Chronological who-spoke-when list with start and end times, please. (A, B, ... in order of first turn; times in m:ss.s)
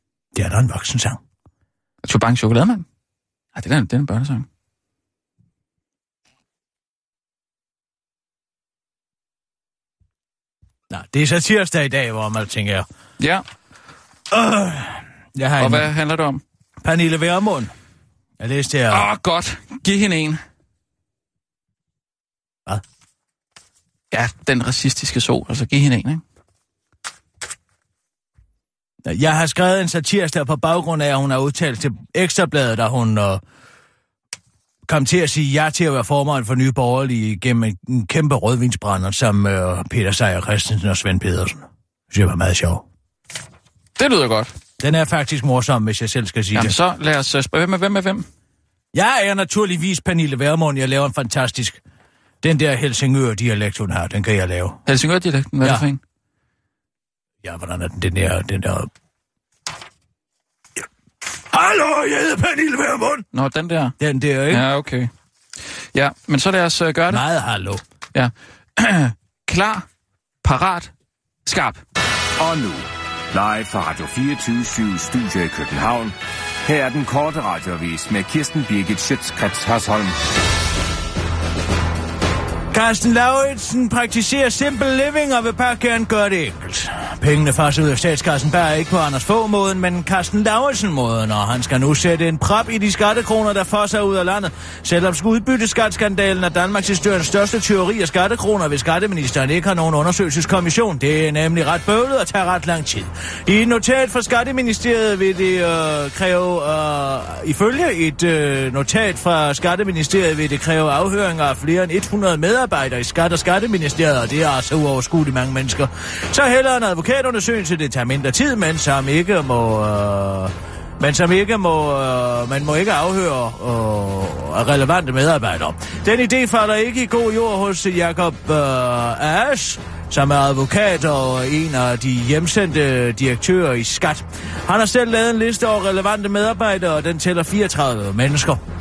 0:00.3-0:01.2 A
0:02.0-0:02.8 B
0:03.6-0:04.4 B
0:10.9-0:12.9 A
0:13.2-0:13.4 B
0:14.3-0:15.9 A
0:15.6-0:16.4 B
0:16.8-0:17.7 A
0:18.4-0:19.1 A
0:18.9-0:20.4 B
0:24.1-0:26.2 B
0:29.0-0:33.4 A
0:34.9-0:42.8 A
0:44.0-0:44.5 B
0:44.8-0:46.7 A
0:46.5-0:48.3 B
0:48.9-0:51.8 A
0:52.4-0:54.8 A
0:54.9-0:56.0 B
0:57.4-0:58.9 A
1:01.5-1:03.3 A
1:03.3-1:03.9 B
1:04.0-1:04.6 A
1:04.5-1:05.1 B
1:05.7-1:07.3 B
1:07.1-1:07.8 A
1:08.1-1:09.9 B
1:10.4-1:10.9 B
1:11.4-1:11.8 B
1:12.4-1:20.2 C
1:22.7-2:18.6 A